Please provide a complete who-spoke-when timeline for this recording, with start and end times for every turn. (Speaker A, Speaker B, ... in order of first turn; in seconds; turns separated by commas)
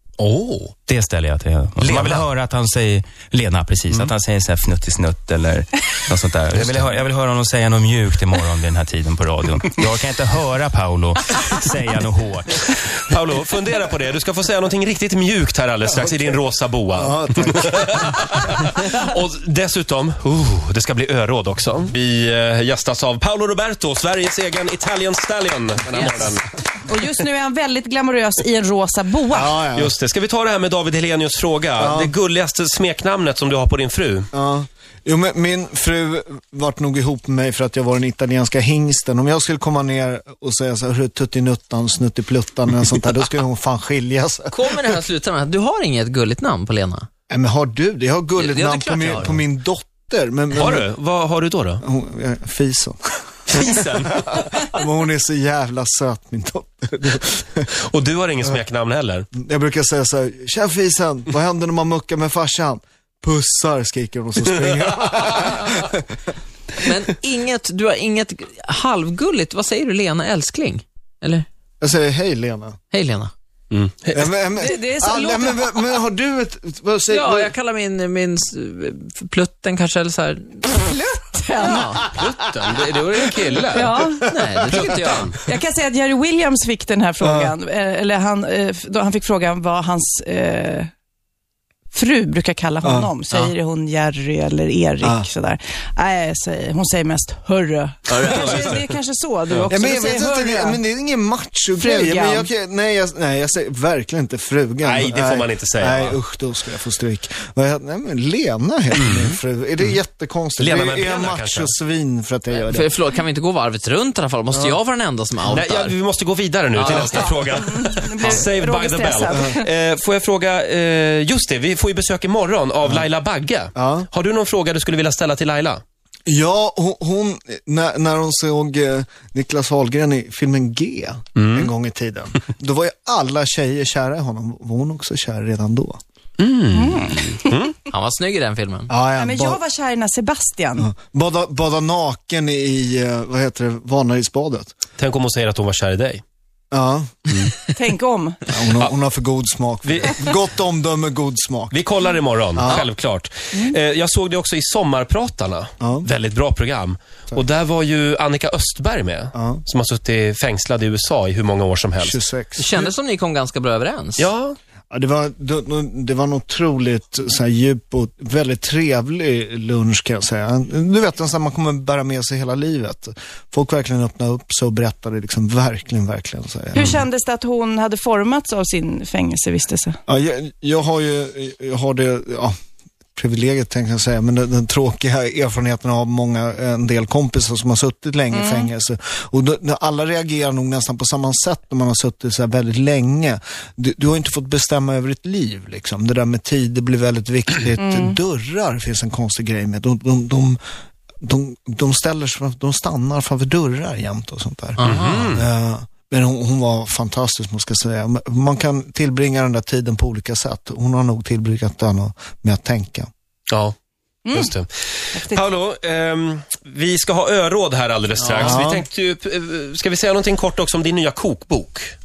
Speaker A: 0.2-0.8, Speaker B: 0.8-12.7, Speaker A: 1.8-2.2, Speaker A: 12.7-26.5, Speaker C: 16.9-18.5, Speaker D: 26.0-26.3, Speaker E: 26.8-29.6, Speaker C: 29.3-29.9, Speaker A: 29.7-34.3, Speaker C: 31.8-32.1, Speaker C: 34.3-44.9, Speaker D: 44.5-47.1, Speaker C: 47.3-50.9, Speaker D: 48.4-49.4, Speaker A: 50.5-51.8, Speaker C: 51.8-53.0, Speaker A: 53.5-54.6, Speaker C: 53.5-57.7, Speaker A: 57.8-59.3, Speaker C: 59.3-66.3, Speaker A: 64.6-65.3, Speaker D: 66.7-71.5, Speaker C: 71.8-72.8, Speaker D: 72.9-73.3, Speaker A: 73.7-74.3, Speaker C: 74.1-77.5, Speaker E: 74.6-75.8, Speaker D: 77.1-80.8, Speaker E: 80.8-81.8, Speaker D: 81.6-82.1, Speaker A: 82.1-84.0, Speaker E: 83.7-84.2, Speaker C: 83.8-84.1, Speaker D: 84.2-85.3, Speaker A: 84.7-85.3, Speaker E: 85.3-90.9, Speaker C: 87.2-87.5, Speaker E: 91.9-100.8, Speaker C: 92.8-93.1, Speaker C: 95.0-95.3, Speaker D: 98.1-98.8, Speaker C: 99.7-112.9, Speaker E: 101.7-102.5, Speaker A: 104.8-106.2, Speaker A: 108.9-109.4, Speaker A: 110.5-111.7, Speaker D: 112.5-116.0, Speaker C: 114.5-114.8, Speaker A: 115.5-125.8, Speaker D: 116.7-117.5, Speaker E: 117.0-119.6, Speaker C: 123.7-124.1, Speaker C: 126.2-136.0, Speaker A: 131.3-131.7, Speaker A: 136.4-137.8, Speaker E: 136.7-137.6, Speaker D: 137.9-138.9, Speaker C: 138.9-139.6, Speaker E: 139.1-140.9, Speaker C: 140.8-144.7, Speaker A: 145.0-146.2, Speaker C: 146.7-147.2, Speaker E: 147.7-148.5, Speaker C: 148.5-151.8, Speaker A: 149.8-150.4, Speaker A: 151.7-162.2, Speaker C: 152.5-152.9, Speaker C: 155.8-156.1, Speaker C: 159.3-159.6, Speaker C: 162.0-162.9, Speaker D: 162.6-164.3, Speaker A: 164.2-164.6, Speaker C: 164.9-177.0, Speaker E: 176.7-180.0, Speaker C: 180.1-182.5, Speaker C: 183.2-200.6, Speaker E: 188.3-188.7, Speaker E: 197.8-198.2, Speaker C: 201.2-213.1, Speaker D: 204.8-205.3, Speaker A: 204.8-205.4, Speaker E: 214.2-214.6, Speaker A: 214.3-221.9, Speaker E: 215.1-215.4, Speaker C: 218.2-218.8